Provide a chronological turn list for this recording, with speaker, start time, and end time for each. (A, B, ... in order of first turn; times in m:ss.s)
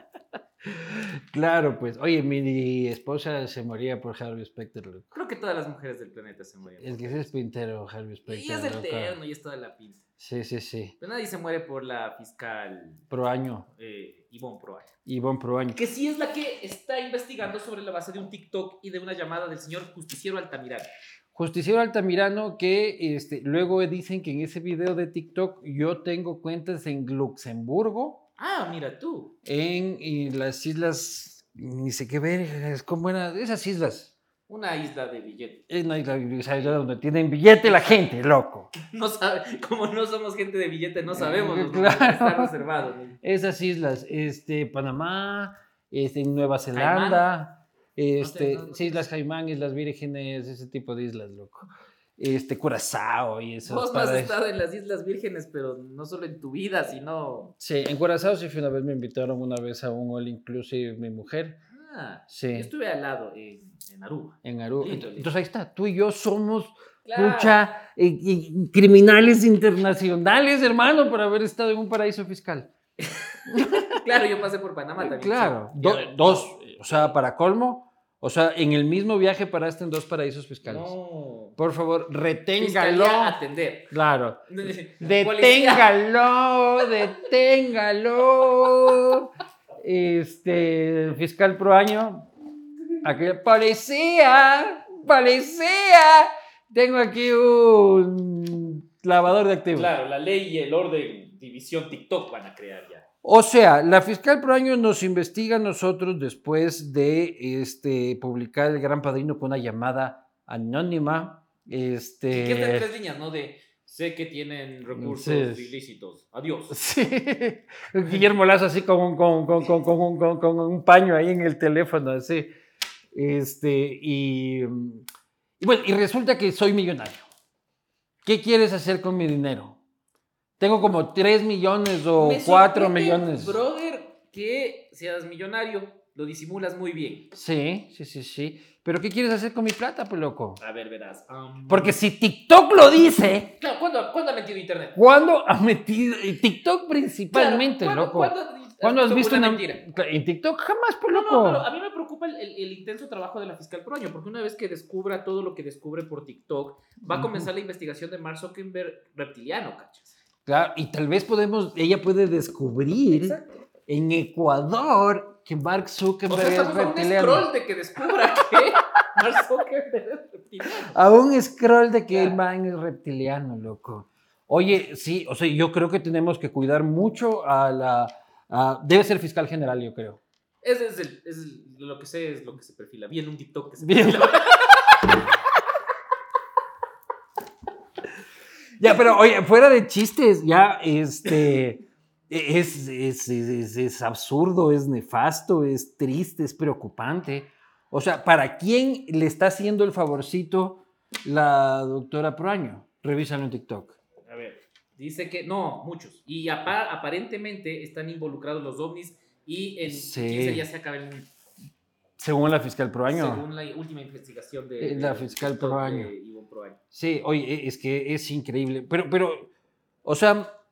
0:00.6-0:05.1 A
0:05.1-0:07.3 B
0:06.8-0:09.2 A
0:08.2-0:10.0 B
0:10.2-0:11.0 A
0:11.0-0:13.0 B
0:13.1-0:13.7 A
0:13.7-0:14.9 B
0:15.0-0:15.8 A
0:15.7-0:20.9 B
0:21.3-0:28.2 A
0:28.4-0:29.3 B
0:29.4-0:34.2 A
0:34.5-0:35.6 B
0:35.7-0:38.7 A
0:37.6-0:38.1 B
0:38.7-0:43.2 B
0:41.1-0:42.6 A
0:43.2-0:54.4 A
0:46.7-0:47.3 B
0:48.2-0:49.0 B
0:53.6-0:57.5 B
0:57.6-1:01.6 A
1:01.7-1:05.3 B
1:02.3-1:02.7 A
1:04.4-1:12.7 A
1:07.0-1:07.6 B
1:13.0-1:13.4 B
1:13.5-1:14.0 A
1:13.9-1:17.1 B
1:15.0-1:20.9 A
1:20.6-1:21.6 B
1:21.6-1:23.4 A
1:22.6-1:23.9 B
1:23.9-1:29.3 A
1:24.5-1:25.9 B
1:29.8-1:32.3 A
1:33.0-1:39.9 A
1:39.7-1:43.0 B
1:43.2-1:52.9 A
1:52.3-1:56.8 B
1:55.0-1:55.7 A
1:56.7-2:02.5 A
2:03.1-2:05.0 A
2:05.6-2:07.3 A
2:08.2-2:09.8 A
2:10.6-2:13.6 A
2:12.2-2:17.3 B
2:17.3-2:20.6 A
2:20.6-2:22.0 B
2:21.7-2:23.5 A
2:23.6-2:25.0 B
2:25.0-2:31.6 A
2:27.3-2:29.8 B
2:31.1-2:40.2 B
2:37.0-2:37.5 A
2:40.4-2:47.5 A
2:43.1-2:43.6 B
2:46.3-2:51.0 B
2:50.8-3:00.2 A
2:52.1-2:52.4 B
3:00.6-3:05.2 B
3:03.8-3:04.4 A
3:08.8-3:24.0 A
3:24.2-3:31.3 B
3:29.8-3:30.7 A
3:32.2-3:33.4 A
3:33.0-3:36.8 B
3:34.8-3:36.1 A
3:36.9-3:39.5 A
3:40.0-3:40.5 A